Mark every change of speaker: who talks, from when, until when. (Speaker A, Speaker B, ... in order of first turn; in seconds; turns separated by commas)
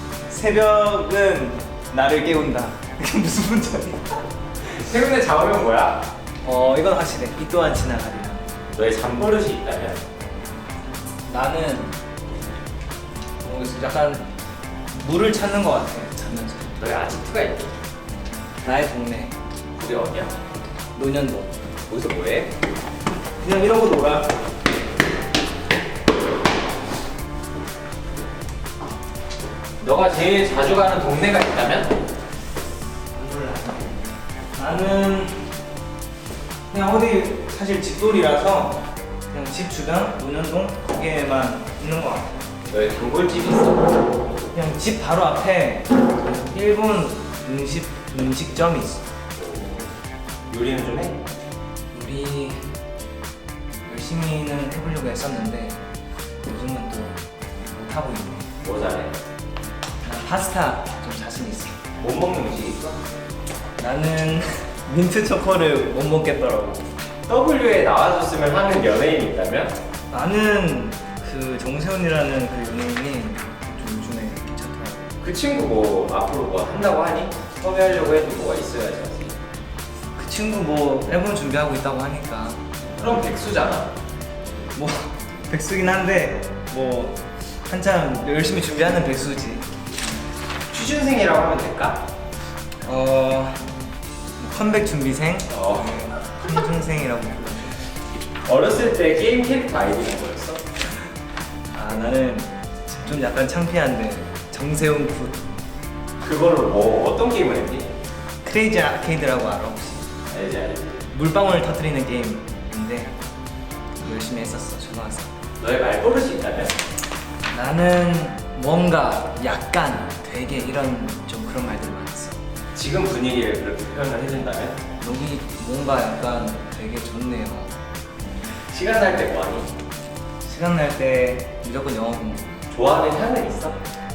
Speaker A: 0.3-4.2, Speaker B: 4.6-6.1, Speaker A: 6.4-8.4, Speaker B: 8.7-10.0, Speaker A: 11.3-12.0, Speaker A: 13.4-14.3, Speaker A: 15.0-16.8, Speaker B: 16.8-17.7, Speaker A: 18.6-19.4, Speaker B: 19.8-20.4, Speaker A: 20.9-21.6, Speaker B: 21.9-22.5, Speaker A: 23.4-24.3, Speaker B: 29.8-31.9, Speaker A: 33.1-34.0, Speaker A: 34.5-35.5, Speaker A: 36.7-42.4, Speaker B: 42.7-44.0, Speaker A: 44.5-49.1, Speaker B: 49.4-50.0, Speaker B: 50.5-51.2, Speaker A: 51.9-52.8, Speaker A: 53.9-55.8, Speaker A: 56.4-57.2, Speaker A: 57.7-58.5, Speaker B: 58.6-59.2, Speaker A: 60.0-61.8, Speaker B: 62.0-63.0, Speaker A: 63.8-66.9, Speaker B: 67.3-69.8, Speaker A: 70.1-75.1, Speaker B: 75.2-79.4, Speaker A: 80.2-82.7, Speaker B: 83.0-84.0, Speaker A: 84.8-89.7, Speaker B: 90.7-92.0, Speaker A: 92.8-93.8, Speaker A: 94.4-97.8, Speaker B: 95.5-96.2, Speaker B: 98.5-100.7, Speaker A: 101.7-105.4, Speaker B: 106.2-108.0, Speaker A: 108.4-110.1, Speaker B: 110.3-111.1, Speaker A: 111.1-113.1, Speaker A: 114.0-115.3, Speaker B: 115.6-116.8, Speaker A: 117.5-122.4, Speaker B: 122.8-124.8, Speaker A: 125.0-127.8, Speaker B: 128.7-129.7, Speaker A: 130.4-132.6, Speaker B: 132.7-133.8